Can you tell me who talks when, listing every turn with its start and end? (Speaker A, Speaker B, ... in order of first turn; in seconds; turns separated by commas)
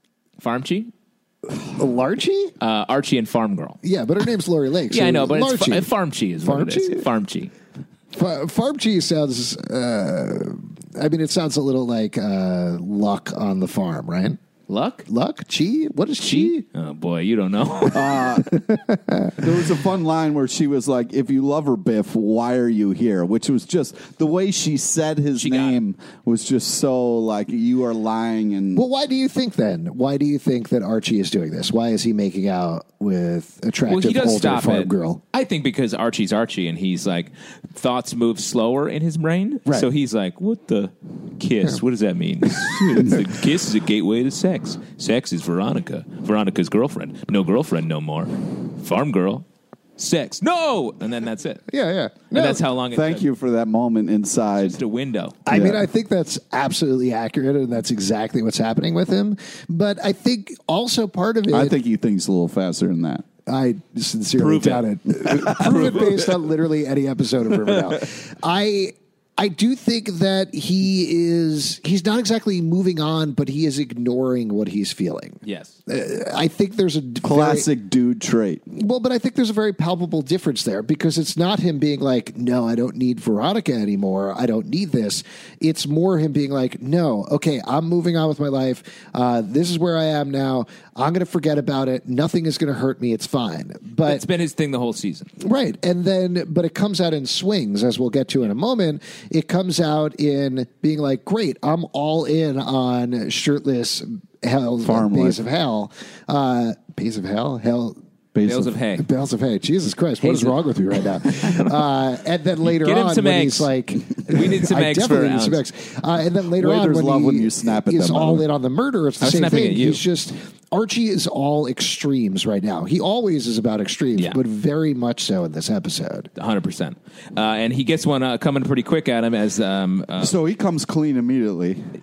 Speaker A: 0.4-0.9, Speaker B: 1.8-2.5, Speaker A: 2.6-3.8, Speaker B: 3.8-5.9, Speaker A: 4.9-7.5, Speaker B: 6.4-7.0, Speaker B: 8.1-14.4, Speaker A: 14.7-15.1, Speaker B: 15.1-16.6, Speaker A: 16.2-18.2, Speaker C: 17.9-18.6, Speaker B: 18.5-19.4, Speaker C: 19.3-28.8, Speaker A: 25.4-25.8, Speaker B: 28.7-35.2, Speaker A: 33.9-49.5, Speaker B: 42.6-43.1, Speaker A: 50.0-51.6, Speaker B: 51.7-52.6, Speaker A: 52.3-53.2, Speaker C: 52.9-54.8, Speaker A: 54.6-55.4, Speaker B: 55.5-61.8, Speaker C: 55.5-55.8, Speaker C: 61.5-63.2, Speaker B: 63.5-77.7, Speaker A: 64.4-64.8, Speaker C: 65.3-66.2, Speaker A: 65.5-65.9, Speaker A: 75.4-75.7, Speaker C: 77.2-78.6, Speaker B: 78.7-94.2, Speaker A: 94.0-95.3, Speaker B: 95.4-108.0, Speaker C: 104.8-105.4, Speaker C: 108.3-108.7, Speaker A: 108.4-109.1, Speaker B: 109.0-126.3, Speaker A: 110.2-111.8, Speaker A: 112.6-113.7, Speaker A: 114.2-115.6, Speaker C: 116.6-118.4, Speaker A: 119.2-120.0, Speaker A: 124.1-124.4, Speaker A: 126.3-130.3, Speaker C: 130.2-131.8